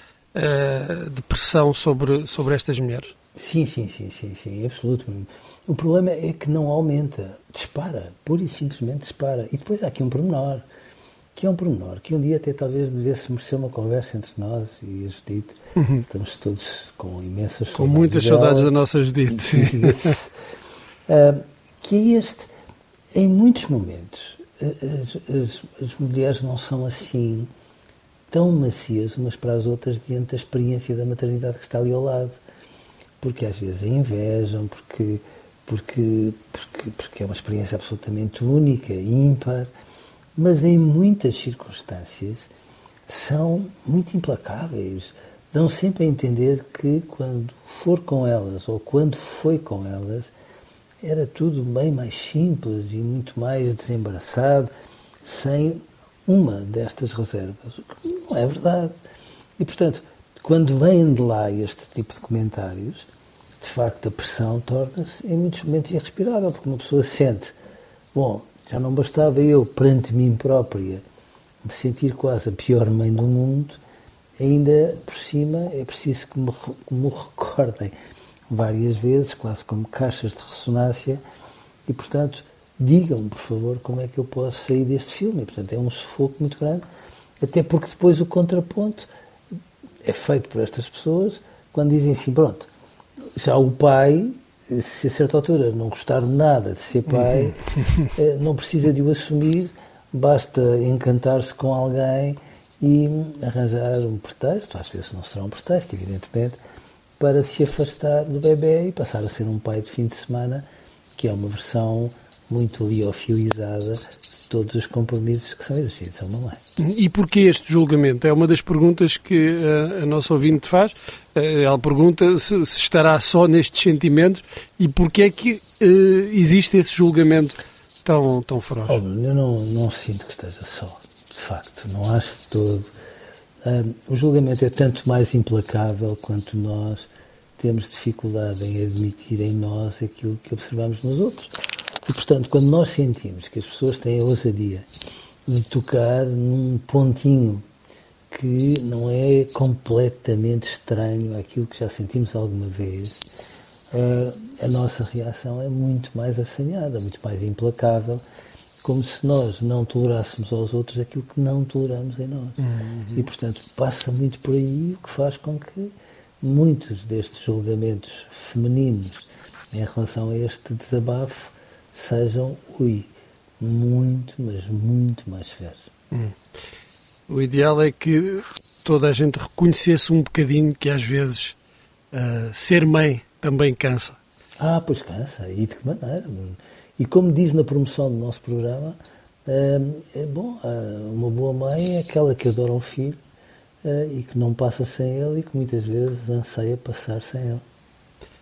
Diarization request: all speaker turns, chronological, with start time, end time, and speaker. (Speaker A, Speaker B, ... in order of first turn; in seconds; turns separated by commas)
Speaker A: 0.3-3.1, Speaker B: 3.3-10.7, Speaker B: 11.3-18.7, Speaker A: 17.8-20.2, Speaker B: 19.3-20.3, Speaker B: 21.1-22.5, Speaker B: 23.1-27.5, Speaker B: 28.3-32.4, Speaker B: 33.2-39.7, Speaker B: 40.4-42.5, Speaker B: 43.1-50.3, Speaker B: 51.0-54.7, Speaker B: 55.2-58.9, Speaker B: 59.6-63.1, Speaker B: 63.6-67.5, Speaker B: 68.1-71.0, Speaker B: 71.6-73.8, Speaker B: 74.4-77.9, Speaker B: 78.5-81.2, Speaker B: 81.9-86.8, Speaker B: 87.4-89.1, Speaker B: 90.0-92.7, Speaker B: 93.4-97.6, Speaker A: 97.2-98.0, Speaker B: 98.1-106.6, Speaker B: 107.2-116.6, Speaker A: 116.8-129.0, Speaker B: 128.8-132.9, Speaker B: 133.6-144.9, Speaker B: 145.4-147.6, Speaker B: 148.3-153.2, Speaker B: 153.9-158.2, Speaker B: 158.8-162.6, Speaker A: 162.6-163.3, Speaker B: 163.1-175.9, Speaker A: 177.3-181.6, Speaker A: 182.1-184.2, Speaker B: 184.6-193.2, Speaker B: 193.8-197.6